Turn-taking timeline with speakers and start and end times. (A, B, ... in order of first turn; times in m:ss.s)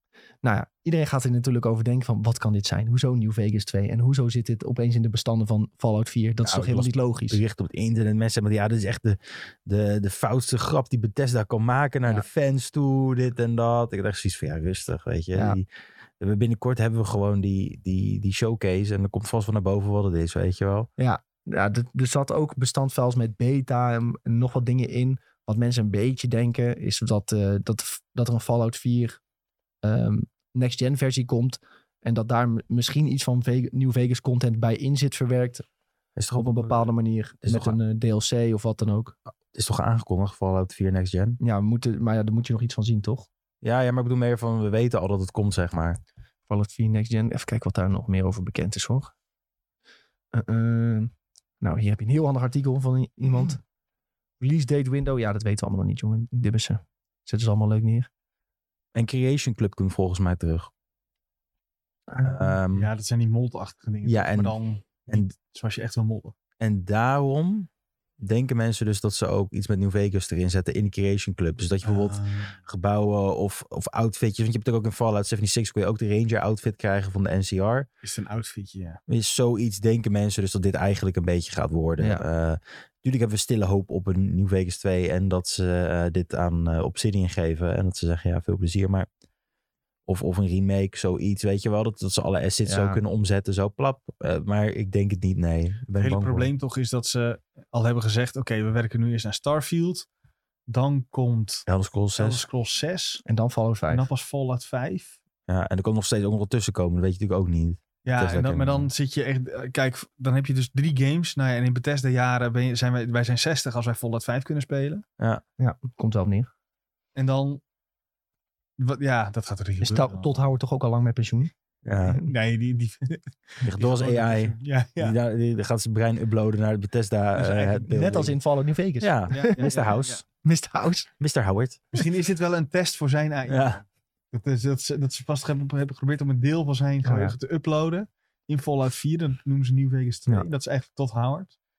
0:00.4-0:07.4 A
0:06.4-0:15.6 B
0:15.3-0:15.6 A
0:16.2-0:20.9 B
0:21.0-0:29.2 A
0:29.8-0:35.6 A
0:36.2-0:36.9 B
0:36.3-0:39.2 A
0:37.4-0:37.8 B
0:39.5-0:41.4 B
0:41.4-0:43.3 A
0:43.6-0:46.0 B
0:46.5-0:49.1 A
0:50.3-0:53.6 A
0:54.4-0:58.1 A
0:58.9-1:00.7 B
1:02.1-1:02.5 A
1:02.2-1:02.9 B
1:02.7-1:06.3 C
1:04.0-1:04.6 B
1:06.6-1:07.7 B
1:08.2-1:17.8 B
1:11.8-1:12.6 C
1:18.0-1:19.0 C
1:19.1-1:29.1 B
1:22.0-1:22.2 A
1:30.0-1:36.5 B
1:32.6-1:33.0 A
1:36.0-1:40.1 C
1:40.7-1:43.2 C
1:41.7-1:42.4 B
1:43.2-1:44.1 A
1:43.9-1:45.2 C
1:45.5-1:48.9 B
1:48.0-1:55.0 C
1:55.6-1:56.5 A
1:57.1-1:57.6 C
1:58.8-2:00.3 C
1:59.8-2:01.5 A
2:01.8-2:02.2 B
2:02.0-2:02.3 A
2:02.2-2:05.1 C
2:03.6-2:08.4 B
2:07.4-2:07.8 C
2:07.8-2:09.7 A
2:09.0-2:10.2 B
2:09.3-2:10.2 C
2:10.4-2:11.1 A
2:11.2-2:11.8 B
2:11.9-2:21.5 C
2:13.5-2:13.8 B
2:17.0-2:17.3 A